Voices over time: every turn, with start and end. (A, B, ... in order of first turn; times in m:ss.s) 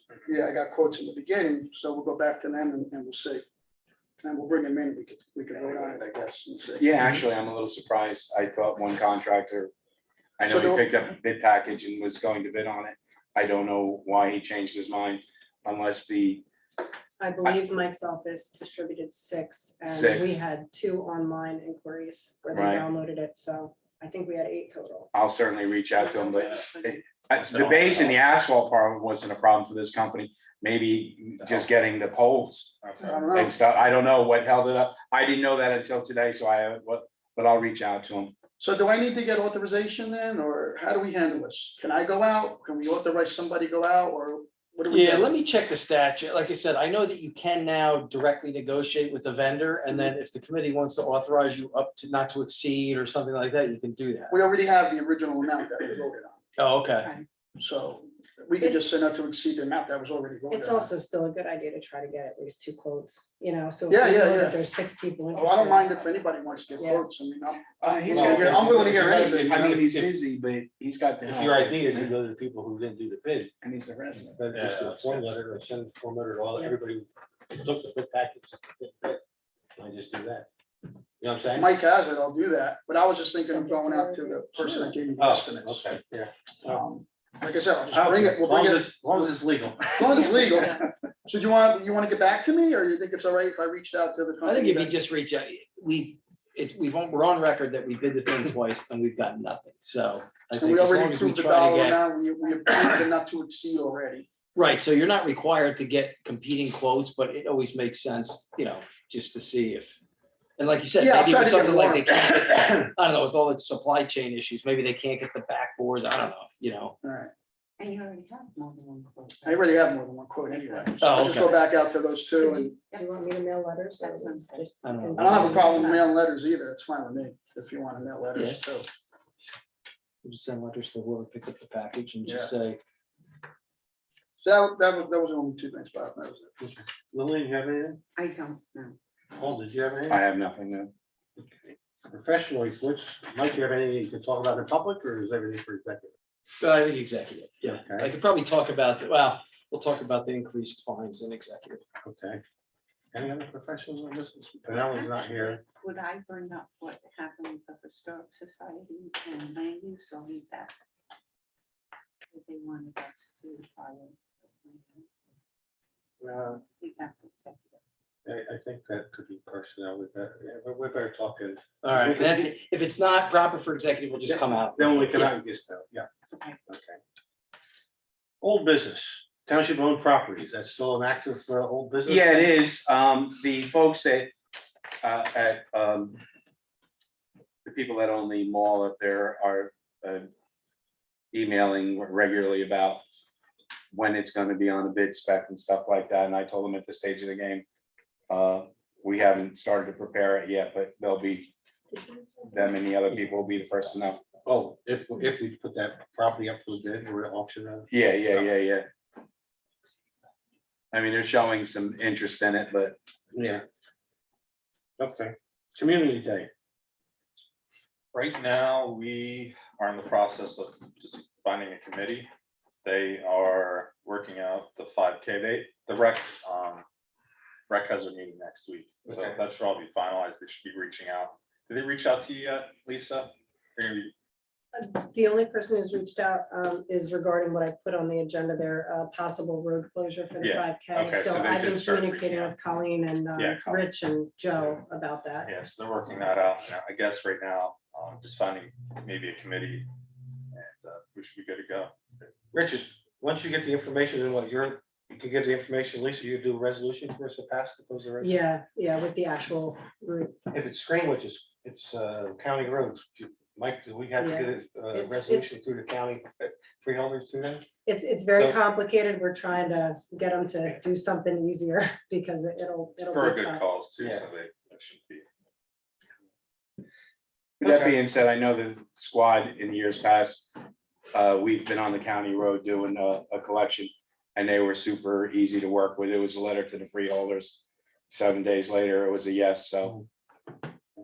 0:00.2-0:03.4 A
0:04.2-0:07.0 A
0:06.8-0:09.7 B
0:10.4-0:16.4 B
0:10.4-0:10.8 A
0:17.2-0:25.1 C
0:19.8-0:20.4 B
0:22.5-0:22.8 B
0:25.1-0:32.8 B
0:25.9-0:27.3 D
0:27.4-0:28.1 E
0:32.8-0:33.3 E
0:33.0-0:33.5 A
0:33.3-0:38.4 B
0:38.6-0:45.3 A
0:44.9-0:54.4 F
0:54.3-0:56.5 A
0:56.6-0:57.1 F
0:57.0-0:57.2 D
0:57.6-1:00.9 A
1:00.5-1:06.0 C
1:03.9-1:04.6 A
1:05.3-1:09.8 A
1:06.8-1:07.0 C
1:07.8-1:12.1 B
1:08.1-1:10.0 G
1:11.2-1:13.5 G
1:13.6-1:14.4 B
1:14.3-1:19.2 G
1:14.5-1:15.3 E
1:19.8-1:20.5 G
1:21.2-1:21.7 G
1:21.6-1:25.9 A
1:23.4-1:24.9 C
1:25.2-1:26.9 G
1:26.8-1:29.3 A
1:27.9-1:30.7 G
1:30.0-1:34.9 A
1:34.4-1:42.0 F
1:40.6-1:44.3 A
1:42.6-1:43.0 F
1:44.5-1:50.0 F
1:50.6-1:57.0 F
1:51.0-1:52.2 A
1:57.0-1:57.3 A
1:57.8-1:59.8 D
1:59.4-2:02.7 A
2:01.0-2:01.6 F
2:02.3-2:05.9 C
2:02.8-2:03.1 D
2:03.9-2:06.0 D
2:04.8-2:05.5 F
2:05.2-2:08.9 A
2:08.3-2:08.6 F
2:10.2-2:12.8 F
2:12.2-2:12.5 A
2:14.4-2:16.5 A
2:16.6-2:18.0 G
2:18.2-2:19.0 D
2:19.4-2:20.2 G
2:20.1-2:20.9 B
2:21.4-2:26.1 G
2:26.6-2:31.8 F
2:27.7-2:28.1 G
2:32.0-2:32.4 G
2:33.1-2:35.6 G
2:34.7-2:40.7 D
2:42.3-2:45.1 D
2:46.2-2:46.6 G
2:46.6-2:47.8 D
2:48.2-2:52.5 G
2:51.8-2:55.3 F
2:54.3-2:56.1 G
2:56.7-2:57.0 G
2:58.4-3:02.5 G
3:02.0-3:04.3 B
3:05.0-3:06.2 B
3:07.6-3:10.3 B
3:11.3-3:13.0 B
3:13.9-3:17.6 B
3:18.3-3:21.5 B
3:22.4-3:24.2 B
3:24.4-3:28.5 G
3:27.9-3:28.9 B
3:30.9-3:33.0 B
3:33.3-3:33.6 G
3:35.0-3:36.5 G
3:38.1-3:42.3 E
3:42.8-3:46.8 E
3:47.7-3:54.1 E
3:49.1-3:49.4 G
3:54.7-4:05.5 C
4:00.4-4:02.6 E
4:03.4-4:03.9 E
4:05.4-4:09.9 E
4:10.5-4:12.3 E
4:12.5-4:18.3 G
4:18.2-4:20.3 C
4:20.5-4:27.7 G
4:24.2-4:25.6 C
4:27.8-4:33.6 C
4:28.3-4:28.6 G
4:33.0-4:35.2 E
4:34.0-4:34.2 G
4:37.6-4:40.5 B
4:37.6-4:38.0 G
4:41.1-4:50.0 B